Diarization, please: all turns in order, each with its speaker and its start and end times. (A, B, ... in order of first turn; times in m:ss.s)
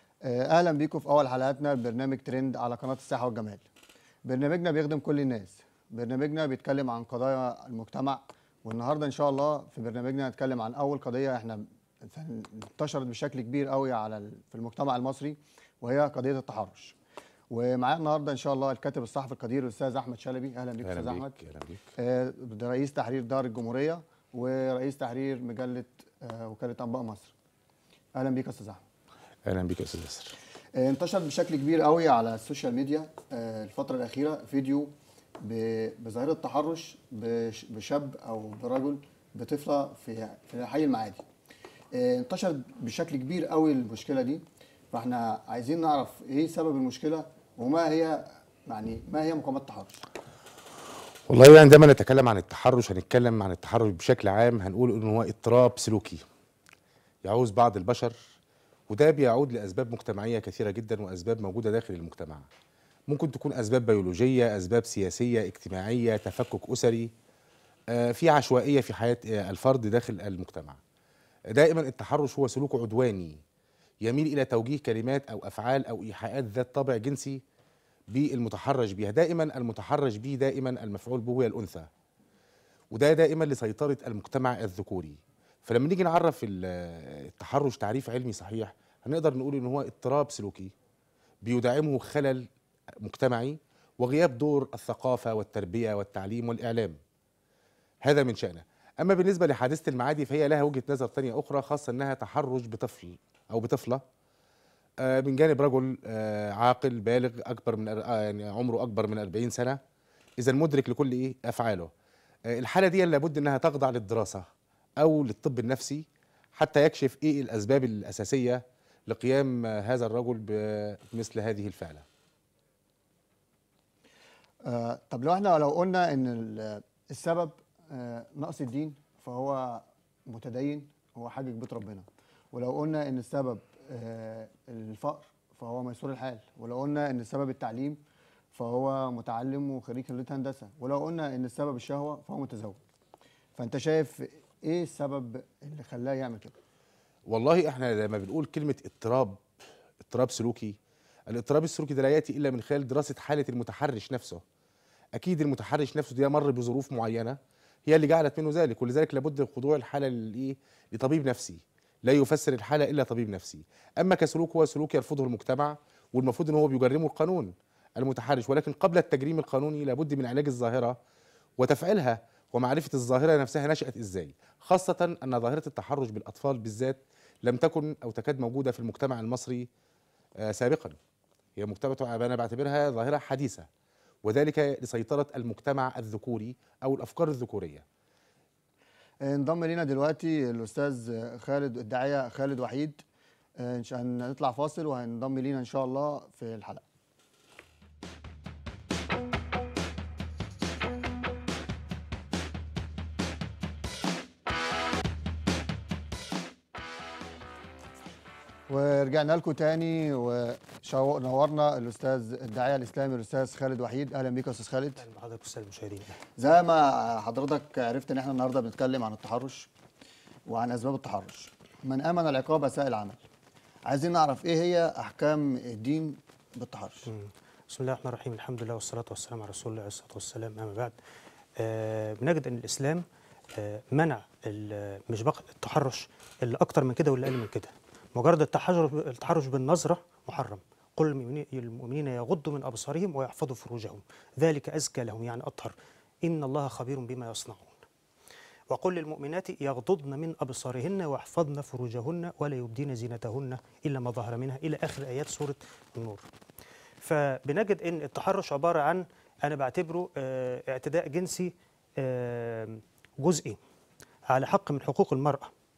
0:00.2-0:03.6 A
0:04.2-0:17.0 A
0:17.5-0:21.4 A
0:20.8-0:21.8 B
0:22.0-0:27.3 A
0:28.2-0:28.8 A
0:29.5-0:30.4 B
0:30.8-0:41.2 A
0:41.9-0:50.0 A
0:51.3-0:56.2 B
0:57.2-0:58.2 B
0:58.9-1:02.5 B
1:03.1-1:07.1 B
1:07.9-1:10.8 B
1:11.5-1:13.4 B
1:14.0-1:17.4 B
1:18.1-1:21.9 B
1:22.9-1:30.7 B
1:31.4-1:32.5 B
1:33.0-1:37.0 B
1:38.0-1:44.0 B
1:45.0-1:49.8 B
1:50.4-1:51.9 B
1:52.5-1:54.5 B
1:55.0-1:56.0 B
1:56.6-2:02.0 B
2:04.6-2:18.0 A
2:18.5-2:22.8 A
2:23.6-2:26.5 A
2:27.3-2:29.4 B
2:30.0-2:30.8 B
2:31.3-2:34.4 B
2:35.2-2:51.0 B
2:51.6-2:59.7 B
3:00.4-3:01.0 B
3:01.6-3:03.7 B
3:04.2-3:07.8 B
3:09.2-3:13.0 A
3:13.6-3:16.8 A
3:28.7-3:35.0 A
3:35.0-3:36.2 C
3:36.4-3:39.7 A
3:40.5-3:43.2 A
3:43.9-3:47.1 A
3:47.1-3:51.0 C
3:51.6-3:53.0 C
3:53.6-4:07.9 C
4:08.7-4:16.2 C
4:17.0-4:23.6 C
4:24.3-4:25.5 C